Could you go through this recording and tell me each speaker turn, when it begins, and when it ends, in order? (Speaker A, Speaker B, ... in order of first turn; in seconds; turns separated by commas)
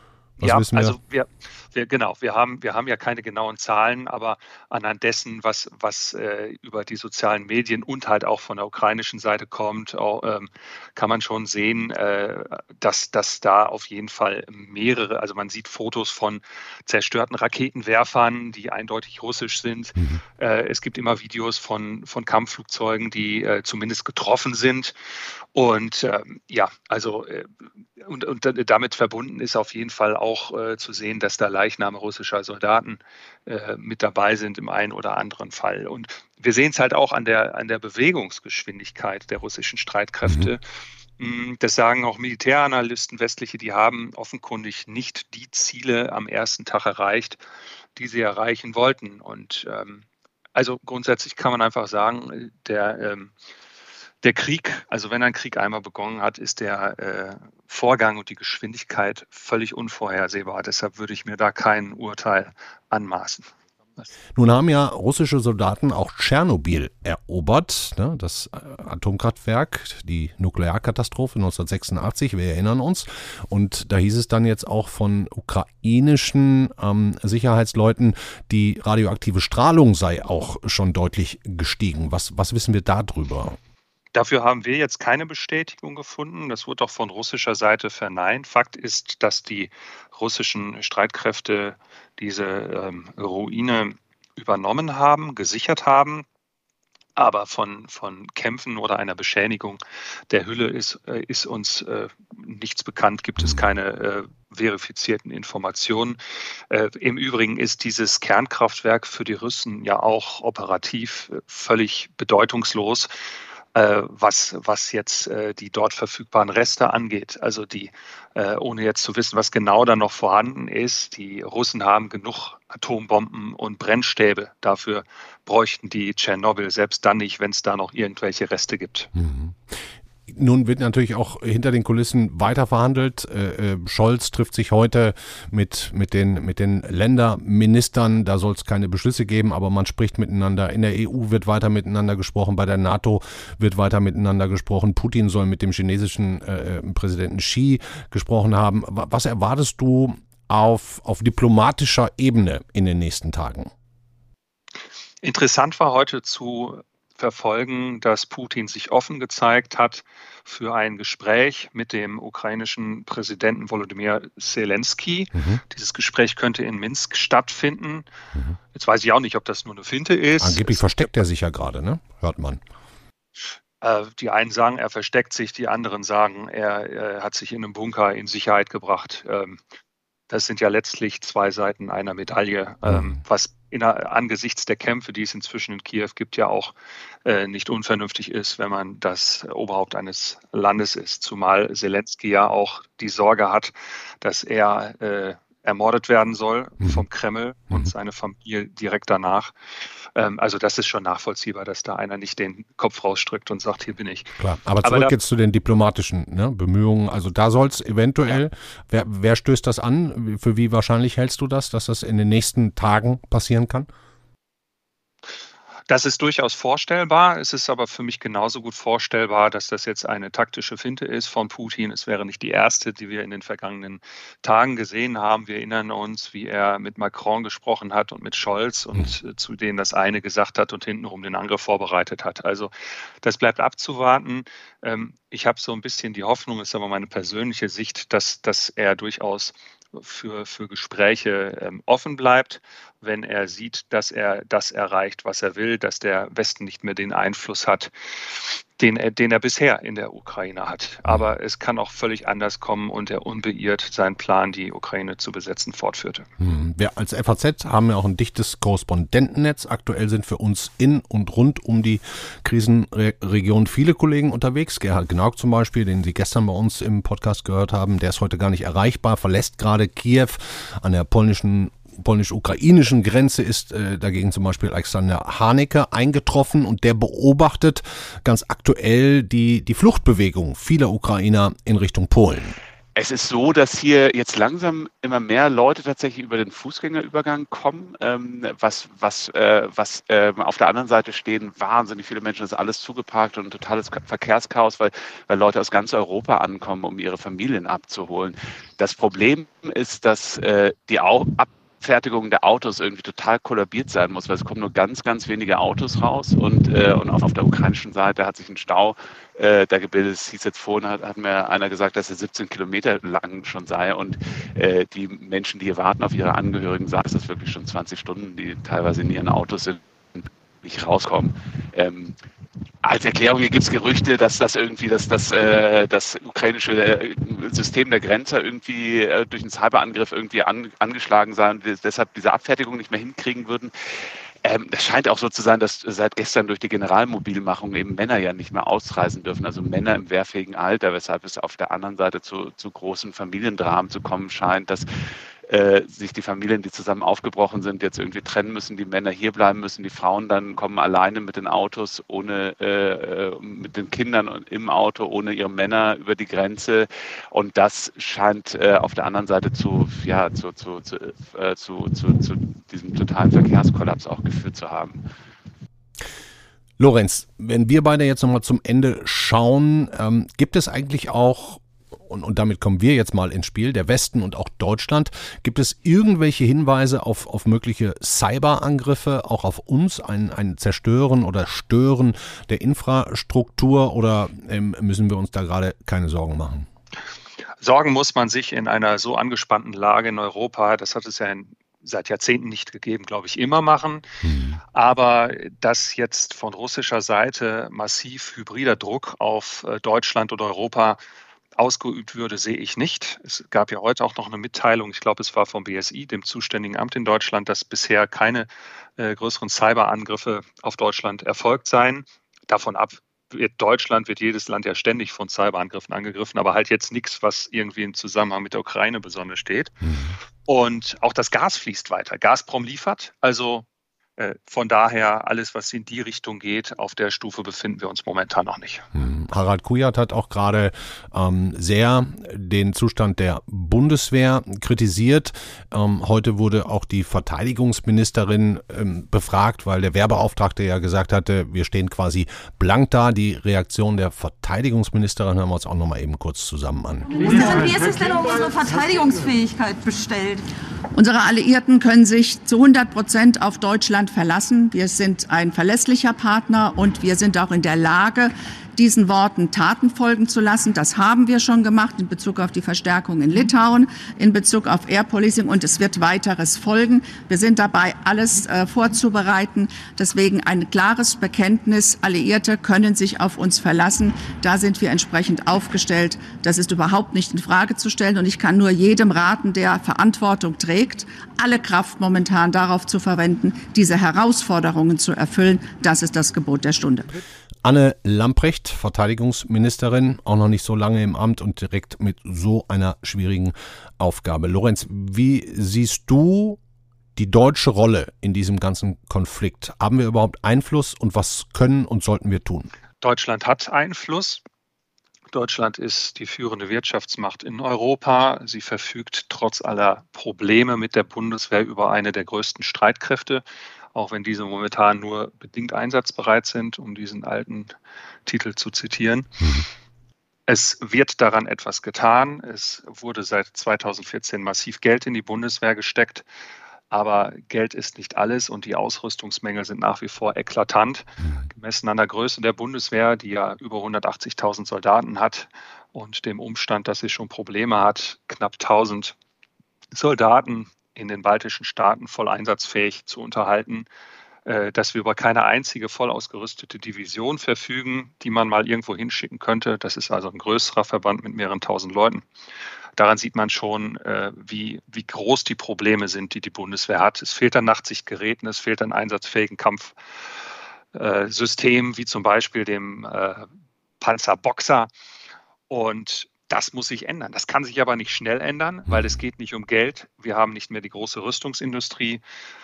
Speaker A: 0.4-1.0, Speaker B: 0.4-24.9, Speaker B: 25.6-40.6, Speaker A: 40.3-40.5, Speaker B: 41.2-47.4, Speaker B: 48.0-50.0, Speaker B: 50.5-53.3, Speaker B: 54.2-63.5, Speaker A: 64.3-83.6, Speaker B: 84.1-96.2, Speaker B: 97.2-106.2, Speaker B: 106.7-113.1, Speaker B: 113.8-129.1, Speaker A: 129.2-153.7, Speaker B: 155.2-168.1, Speaker A: 165.3-165.6, Speaker B: 168.7-171.1, Speaker A: 170.4-172.6, Speaker B: 173.8-179.6, Speaker B: 180.3-186.7, Speaker A: 182.9-183.2, Speaker B: 187.2-199.5, Speaker B: 200.2-205.1, Speaker A: 204.4-213.9, Speaker B: 215.9-256.3, Speaker A: 256.4-282.6, Speaker C: 282.9-322.2, Speaker C: 322.8-344.9, Speaker C: 345.5-365.1, Speaker A: 366.8-386.7, Speaker B: 387.6-394.0, Speaker A: 394.2-394.6, Speaker B: 394.7-401.0, Speaker B: 401.6-419.9, Speaker A: 419.9-420.2, Speaker B: 420.5-423.7, Speaker B: 424.2-428.9, Speaker A: 428.9-447.1, Speaker D: 447.1-450.4, Speaker E: 450.9-487.1, Speaker A: 487.6-496.6, Speaker A: 497.2-502.7, Speaker B: 503.0-504.4, Speaker B: 505.3-513.4, Speaker B: 513.9-517.7, Speaker B: 518.3-519.6, Speaker B: 520.5-526.2, Speaker B: 526.9-539.1, Speaker B: 539.9-543.9, Speaker B: 544.5-552.2, Speaker B: 553.0-560.0, Speaker B: 560.9-563.5, Speaker B: 564.0-564.9, Speaker B: 565.7-572.2, Speaker A: 568.9-569.1